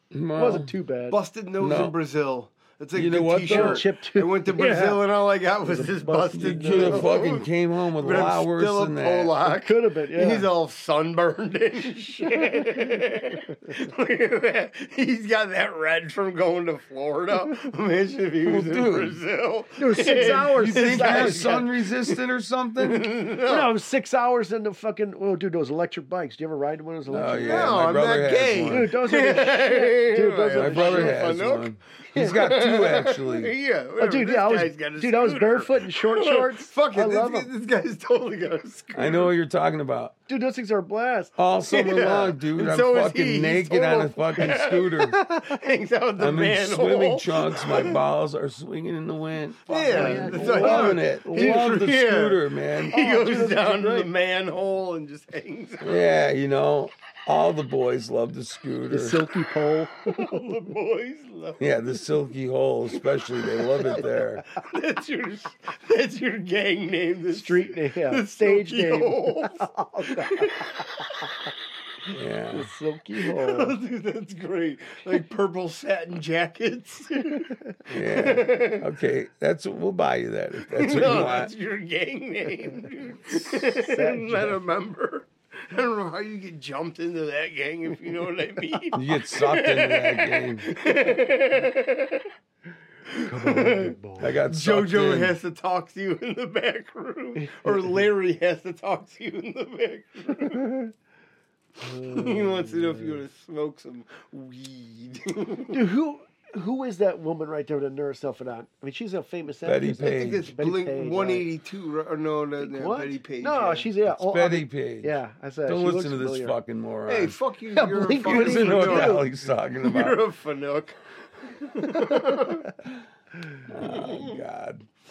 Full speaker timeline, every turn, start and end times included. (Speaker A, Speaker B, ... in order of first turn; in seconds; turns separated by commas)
Speaker A: 0.1-0.7, Speaker B: 0.3-1.2, Speaker C: 1.1-22.2, Speaker A: 1.6-2.0, Speaker A: 2.9-3.9, Speaker B: 3.4-5.0, Speaker B: 5.6-7.1, Speaker A: 6.3-9.3, Speaker B: 9.4-10.5, Speaker A: 18.4-19.2, Speaker B: 19.8-21.7, Speaker A: 20.2-23.1, Speaker C: 22.8-23.7, Speaker B: 23.4-27.8, Speaker A: 27.1-28.9, Speaker C: 27.4-39.3, Speaker B: 28.6-31.4, Speaker A: 30.5-33.5, Speaker B: 32.1-32.6, Speaker B: 34.0-37.5, Speaker A: 38.9-40.1, Speaker B: 40.3-41.3, Speaker A: 41.4-45.2, Speaker C: 41.7-48.0, Speaker A: 46.2-53.0, Speaker C: 49.7-56.0, Speaker B: 49.9-51.8, Speaker B: 52.9-54.1, Speaker A: 55.8-59.2, Speaker B: 58.9-60.2, Speaker C: 60.0-61.7, Speaker A: 61.6-64.4, Speaker C: 64.5-71.3, Speaker B: 67.3-70.9, Speaker A: 72.1-72.7, Speaker B: 72.5-73.8, Speaker C: 73.2-78.9, Speaker A: 77.9-81.5, Speaker C: 80.7-92.3, Speaker B: 83.3-84.6, Speaker A: 88.9-90.7, Speaker C: 93.1-94.0, Speaker B: 93.3-94.3, Speaker A: 94.2-95.3, Speaker C: 94.5-100.8, Speaker B: 97.4-98.0, Speaker B: 101.8-103.2, Speaker C: 102.0-105.8, Speaker B: 105.7-111.5, Speaker A: 109.6-110.5, Speaker C: 110.0-113.9, Speaker B: 112.6-116.6, Speaker A: 114.1-117.3, Speaker C: 117.1-122.7, Speaker B: 117.7-119.3, Speaker A: 118.2-120.2, Speaker A: 123.7-124.9, Speaker C: 123.8-124.4